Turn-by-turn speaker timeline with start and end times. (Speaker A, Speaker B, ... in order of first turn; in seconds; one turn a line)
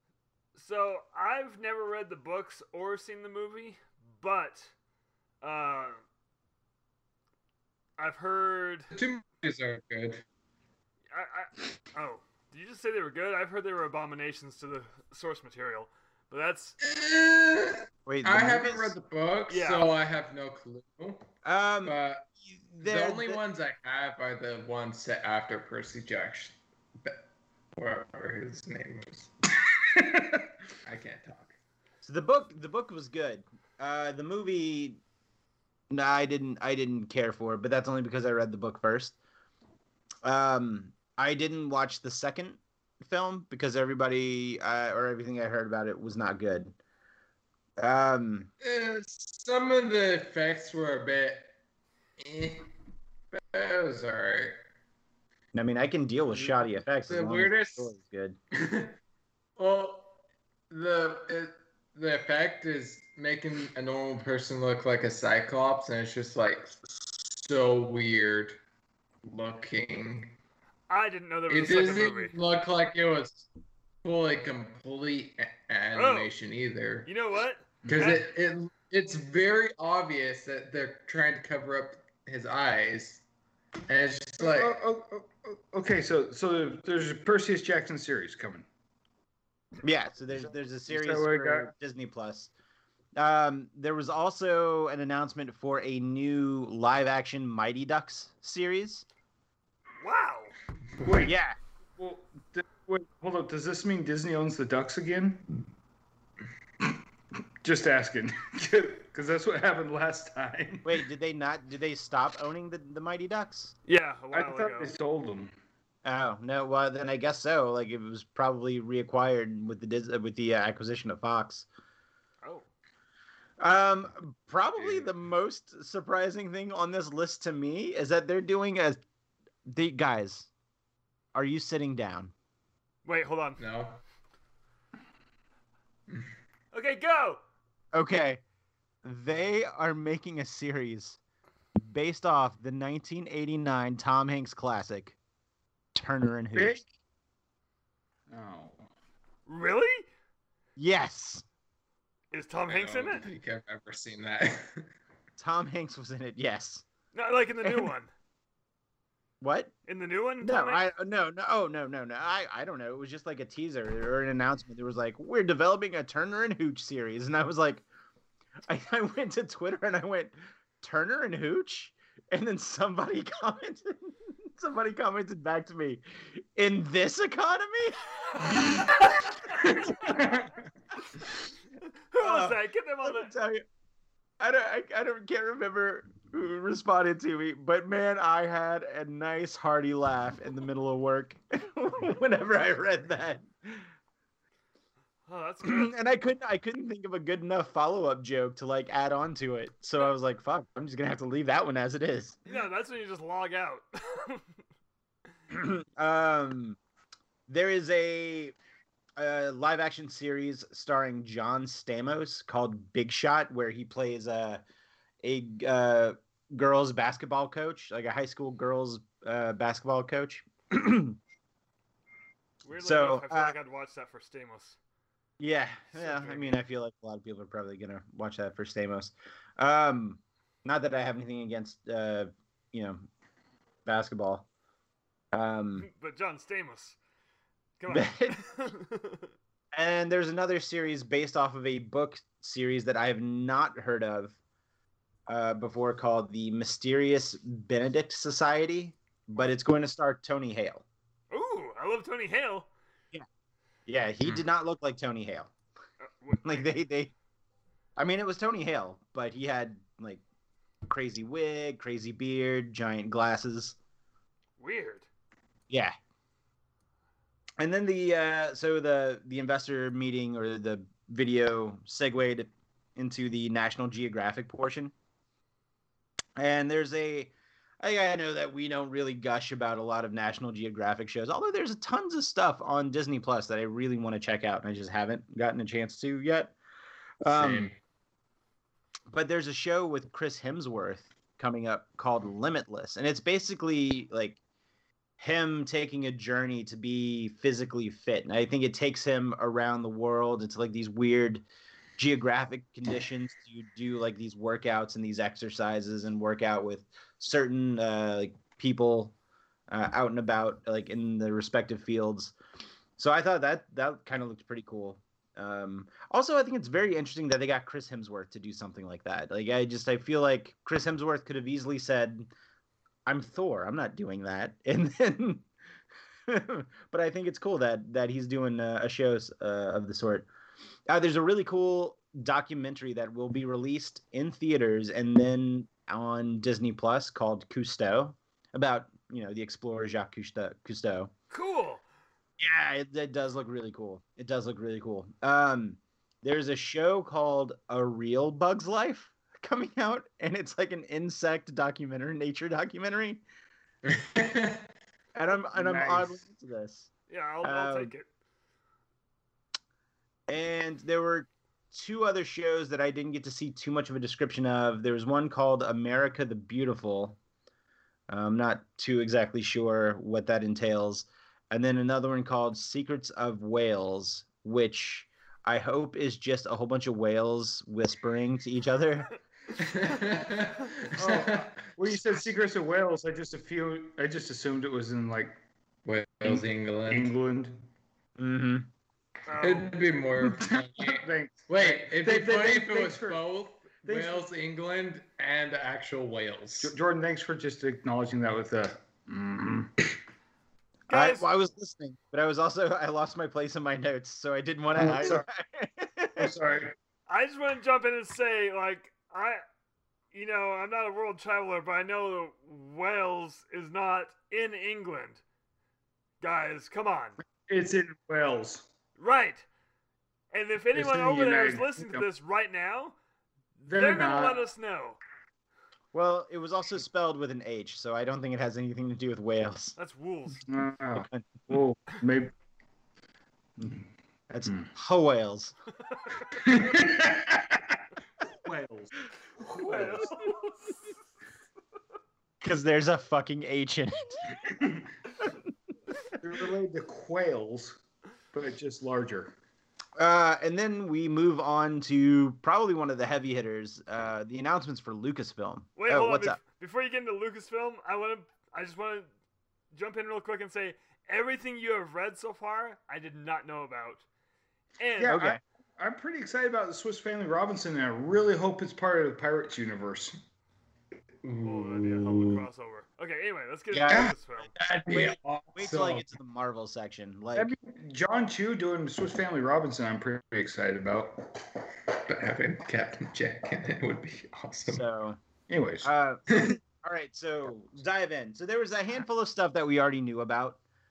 Speaker A: 0.6-4.7
Speaker A: 5.4-6.0
Speaker A: 8.0-8.9
Speaker B: 8.9-10.2
Speaker A: 11.1-16.8
Speaker B: 16.8-21.3
Speaker C: 18.1-18.9
Speaker A: 19.5-19.9
Speaker C: 21.4-21.9
Speaker B: 21.8-27.2
Speaker C: 22.8-23.4
Speaker B: 27.8-29.3
Speaker D: 29.9-30.4
Speaker B: 30.8-31.5
Speaker C: 32.0-35.0
Speaker C: 35.9-39.1
Speaker C: 40.2-46.7
Speaker C: 47.8-48.5
Speaker B: 48.6-51.5
Speaker B: 52.2-52.7
Speaker B: 53.3-54.6
Speaker C: 55.5-58.4
Speaker B: 57.1-57.9
Speaker B: 58.5-58.9
Speaker B: 59.6-60.1
Speaker B: 60.7-68.6
Speaker B: 69.2-70.4
Speaker A: 70.9-72.3
Speaker B: 71.5-73.5
Speaker B: 74.0-77.1
Speaker A: 75.9-76.3
Speaker A: 77.0-78.2
Speaker D: 77.9-78.1
Speaker B: 77.9-83.2
Speaker B: 83.9-84.8
Speaker D: 84.4-88.7
Speaker C: 89.8-92.5
Speaker D: 90.9-91.7
Speaker C: 93.2-99.0
Speaker A: 100.0-100.5
Speaker D: 101.0-101.4
Speaker C: 101.2-101.6
Speaker D: 102.0-105.5
Speaker D: 107.6-111.0
Speaker C: 110.8-113.7
Speaker A: 113.9-114.9
Speaker D: 114.3-115.5
Speaker C: 116.0-121.7
Speaker C: 123.6-129.0
Speaker C: 129.7-130.5
Speaker C: 131.3-132.3
Speaker A: 133.0-133.6
Speaker B: 133.6-134.0
Speaker A: 136.7-137.4
Speaker C: 137.9-138.4
Speaker C: 139.0-141.2
Speaker C: 141.8-145.2
Speaker C: 145.9-146.8
Speaker D: 146.5-146.8
Speaker D: 148.3-148.8
Speaker A: 149.5-150.1
Speaker C: 150.8-151.4
Speaker A: 152.3-153.3
Speaker B: 152.7-154.9
Speaker C: 155.4-156.8
Speaker A: 157.1-158.1
Speaker C: 157.6-157.9
Speaker C: 159.4-159.7
Speaker A: 159.9-160.8
Speaker C: 160.4-167.8
Speaker C: 168.7-179.0
Speaker D: 180.0-180.7
Speaker A: 182.1-183.3
Speaker C: 182.2-183.6
Speaker C: 184.4-193.9
Speaker A: 195.3-195.9
Speaker C: 195.6-202.4
Speaker A: 202.5-204.5
Speaker C: 205.5-206.8
Speaker C: 207.5-208.5
Speaker C: 209.2-214.6
Speaker C: 215.2-221.2
Speaker A: 222.6-224.8
Speaker C: 222.8-223.5
Speaker C: 225.4-233.0
Speaker A: 225.9-226.6
Speaker C: 233.9-234.4
Speaker C: 235.3-235.9
Speaker A: 235.8-236.9
Speaker A: 237.8-239.3
Speaker C: 237.9-238.4
Speaker C: 239.7-244.4
Speaker C: 245.3-250.8
Speaker A: 251.3-252.7
Speaker C: 253.9-255.5
Speaker A: 256.0-256.7
Speaker C: 256.4-257.1
Speaker C: 258.0-260.2
Speaker C: 260.9-263.8
Speaker A: 264.6-265.1
Speaker C: 267.6-274.9
Speaker C: 276.4-286.5
Speaker C: 287.2-287.7
Speaker D: 287.3-287.7
Speaker C: 289.1-294.4
Speaker C: 295.2-301.4
Speaker C: 302.0-309.1
Speaker C: 309.7-312.4
Speaker C: 313.0-322.3
Speaker C: 323.1-325.4
Speaker C: 326.3-330.3
Speaker C: 330.9-341.1
Speaker A: 341.3-341.8
Speaker C: 342.4-353.2
Speaker B: 353.9-354.7
Speaker C: 355.1-356.9
Speaker D: 355.5-356.2
Speaker A: 357.1-358.1
Speaker C: 357.4-357.9
Speaker C: 360.3-367.2
Speaker C: 368.1-379.1
Speaker B: 379.6-381.5
Speaker D: 380.9-385.4
Speaker B: 385.9-387.1
Speaker D: 386.2-387.6
Speaker C: 388.2-388.7
Speaker A: 389.3-389.7
Speaker B: 389.4-396.7
Speaker D: 390.2-393.2
Speaker D: 393.9-394.3
Speaker D: 396.6-400.0
Speaker A: 400.9-401.3
Speaker C: 400.9-406.3
Speaker D: 404.8-405.2
Speaker D: 406.2-406.7
Speaker A: 407.1-409.4
Speaker A: 410.1-415.2
Speaker A: 416.2-417.2
Speaker D: 417.5-418.7
Speaker A: 419.0-419.4
Speaker A: 420.3-422.9
Speaker D: 420.7-422.1
Speaker A: 423.6-425.0
Speaker D: 423.7-424.4
Speaker C: 425.9-429.7
Speaker A: 429.8-430.4
Speaker D: 430.5-432.3
Speaker C: 430.9-431.2
Speaker C: 434.3-435.5
Speaker D: 436.4-437.6
Speaker D: 438.3-440.3
Speaker A: 439.5-440.6
Speaker C: 442.4-444.4
Speaker D: 444.4-444.9
Speaker D: 446.2-447.8
Speaker D: 448.3-449.4
Speaker C: 450.0-456.4
Speaker A: 455.8-459.1
Speaker A: 459.7-464.0
Speaker A: 464.8-465.3
Speaker D: 465.0-470.2
Speaker C: 465.1-465.4
Speaker B: 471.2-472.4
Speaker A: 471.4-474.5
Speaker C: 473.7-474.1
Speaker B: 473.9-476.1
Speaker C: 474.9-477.5
Speaker D: 477.4-481.3
Speaker B: 481.9-484.8
Speaker C: 484.7-485.2
Speaker D: 485.5-485.9
Speaker C: 485.8-490.6
Speaker B: 486.3-486.6